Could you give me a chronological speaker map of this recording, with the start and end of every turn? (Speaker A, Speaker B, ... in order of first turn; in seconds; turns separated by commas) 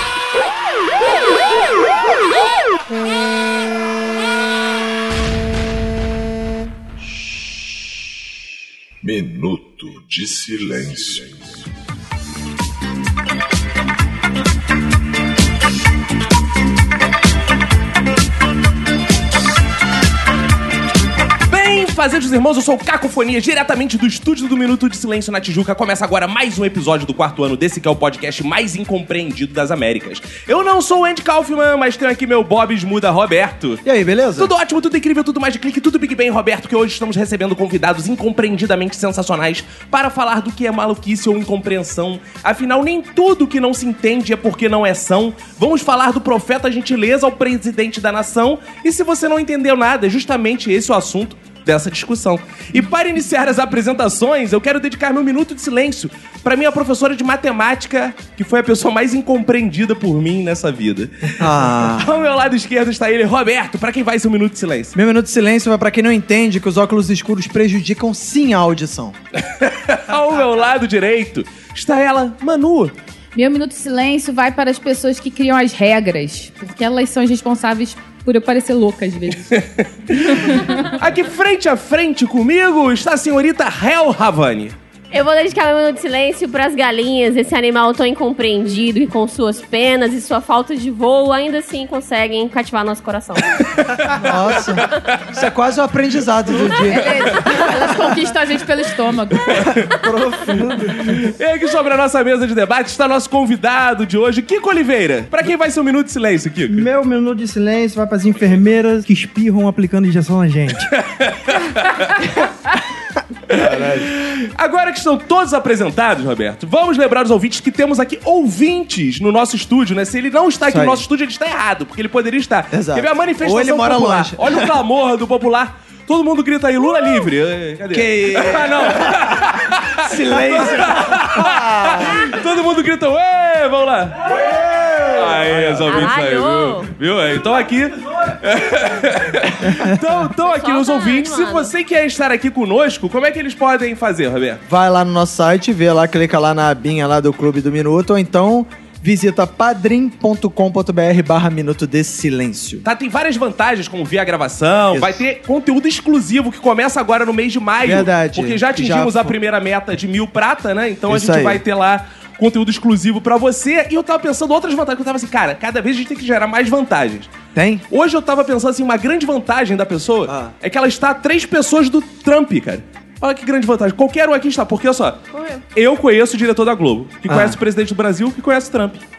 Speaker A: 9.0-11.6, Speaker B: 21.5-33.8, Speaker C: 33.9-34.5, Speaker B: 34.4-64.9, Speaker C: 61.4-62.1, Speaker C: 65.0-69.2, Speaker B: 69.5-72.9, Speaker D: 73.4-79.5, Speaker B: 79.5-84.8, Speaker D: 80.3-80.9, Speaker E: 85.1-93.6, Speaker B: 93.8-95.2, Speaker C: 94.2-97.6, Speaker D: 96.9-99.7, Speaker B: 99.5-99.8, Speaker C: 99.6-101.0, Speaker B: 101.0-106.9, Speaker F: 106.7-110.9, Speaker B: 110.9-112.2, Speaker C: 113.5-114.2, Speaker B: 113.5-134.3, Speaker C: 120.7-121.0, Speaker C: 122.7-124.7, Speaker C: 127.9-129.4, Speaker C: 130.0-132.4, Speaker C: 134.3-136.1, Speaker B: 135.1-144.6, Speaker E: 135.9-136.9, Speaker E: 140.4-141.7, Speaker C: 144.7-152.8, Speaker B: 152.8-167.3, Speaker C: 154.9-155.2, Speaker C: 157.8-159.3, Speaker C: 161.1-161.6, Speaker C: 167.6-167.8, Speaker B: 167.9-175.2, Speaker E: 175.3-175.6, Speaker B: 175.7-179.0, Speaker C: 177.3-177.6